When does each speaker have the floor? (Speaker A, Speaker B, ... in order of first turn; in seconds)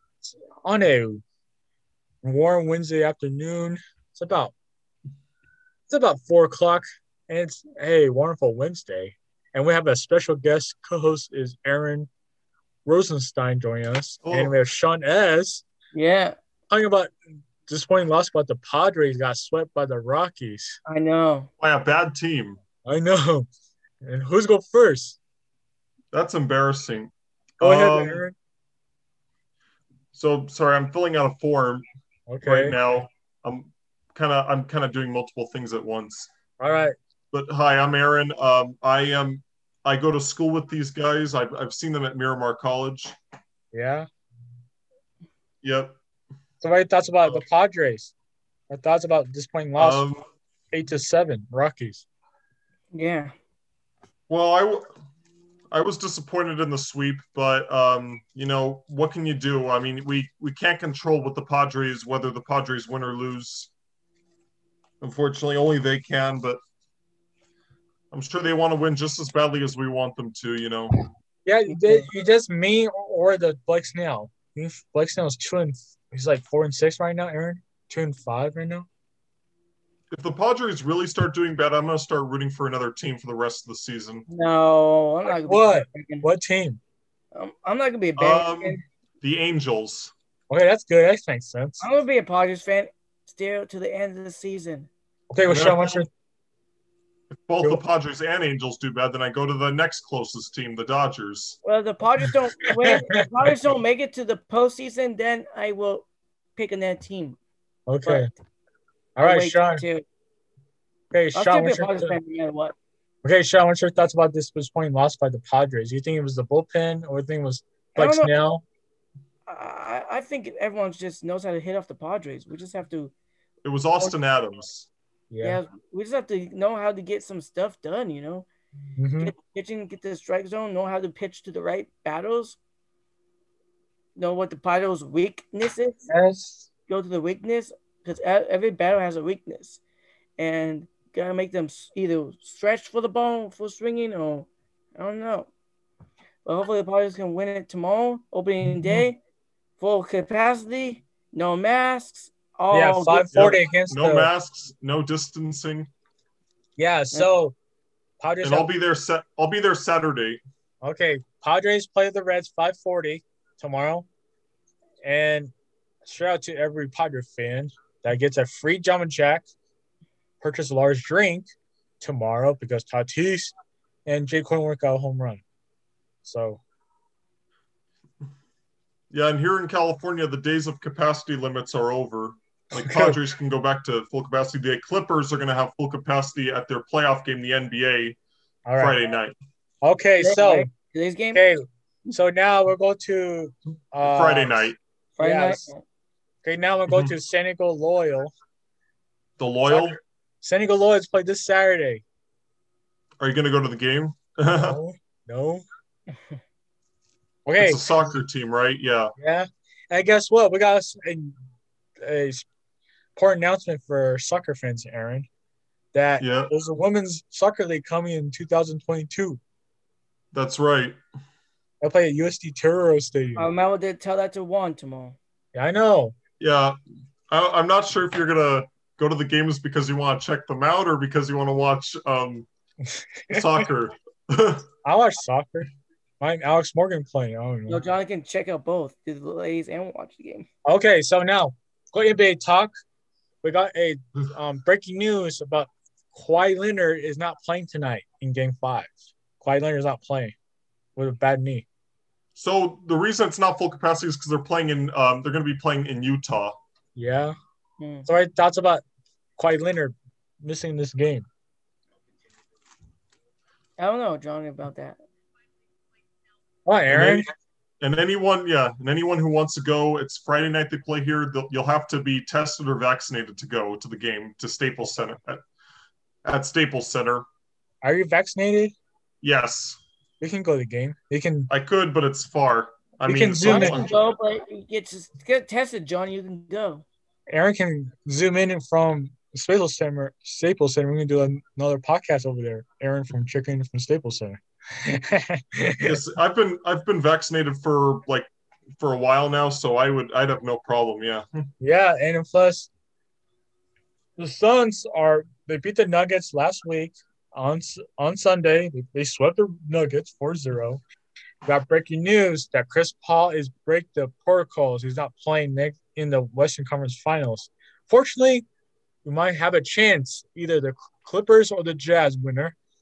Speaker A: 0.2-1.2, 2.2-4.5, 5.9-12.1, 12.9-15.6, 16.7-17.1, 17.7-20.8, 22.8-23.5, 24.0-25.2, 27.6-28.4, 32.3-32.8, 36.6-37.0, 43.7-44.1, 46.6-48.1, 48.7-50.1, 50.7-52.0, 71.4-78.9, 85.4-86.8, 90.5-91.8, 95.3-96.1, 107.9-108.3, 109.2-109.8, 111.1-112.2, 113.2-118.6, 125.3-125.6, 129.0-129.3, 136.1-136.7, 152.7-154.3, 156.8-157.6, 158.2-158.7, 160.8-164.1, 165.0-165.5, 166.0-169.5, 170.4-173.5, 174.1-175.4, 176.2-176.6, 182.8-183.2, 188.7-189.0, 189.8-190.7, 191.3-195.7, 196.4-198.3, 199.7-202.0, 204.5-205.6, 207.4-207.8, 209.2-211.3, 212.0-212.4, 213.2-215.3, 215.9-219.4, 221.8-223.5, 225.5-226.1, 234.8-235.7, 236.2-237.8, 240.7-242.7, 243.4-250.4, 250.9-251.7, 256.9-257.3, 258.1-258.8, 259.4-261.3, 266.6-267.3, 277.8-278.8, 280.2-281.5, 283.1-283.9, 287.3-295.9, 301.6-302.7, 304.2-310.8, 311.4-318.4, 319.0-322.6
Speaker B: 14.2-14.6, 21.6-22.6, 26.1-28.2, 30.1-31.8, 32.4-36.3, 37.3-43.1, 45.6-46.0, 49.8-50.2, 54.3-54.9, 55.7-63.7, 65.0-66.6, 68.1-70.9, 80.1-84.2, 88.2-90.1, 95.5-96.0, 97.3-101.6, 123.6-124.9, 153.3-155.9, 158.4-160.4, 179.1-188.2, 188.8-189.3, 194.0-194.8, 199.4-200.0, 203.2-204.8, 207.6-209.1, 216.2-216.5, 220.3-221.0, 226.4-226.8, 227.3-232.5, 233.3-234.6, 252.4-256.6, 266.9-267.3, 267.8-275.4, 276.2-277.2, 279.2-279.8, 281.5-284.0, 295.8-301.5
Speaker C: 15.9-16.3, 20.9-21.5, 52.9-53.3, 71.7-72.1, 84.3-86.3, 87.3-88.8, 91.8-94.9, 101.6-107.4, 108.0-108.3, 109.2-110.0, 111.3-112.8, 118.0-118.3, 119.5-123.1, 125.4-128.5, 129.2-132.6, 134.2-136.1, 136.9-139.8, 140.4-145.5, 146.4-149.2, 149.8-153.3, 190.2-191.4, 195.2-195.8, 223.3-225.2, 237.7-240.5, 257.8-258.1, 263.8-265.0, 283.4-286.8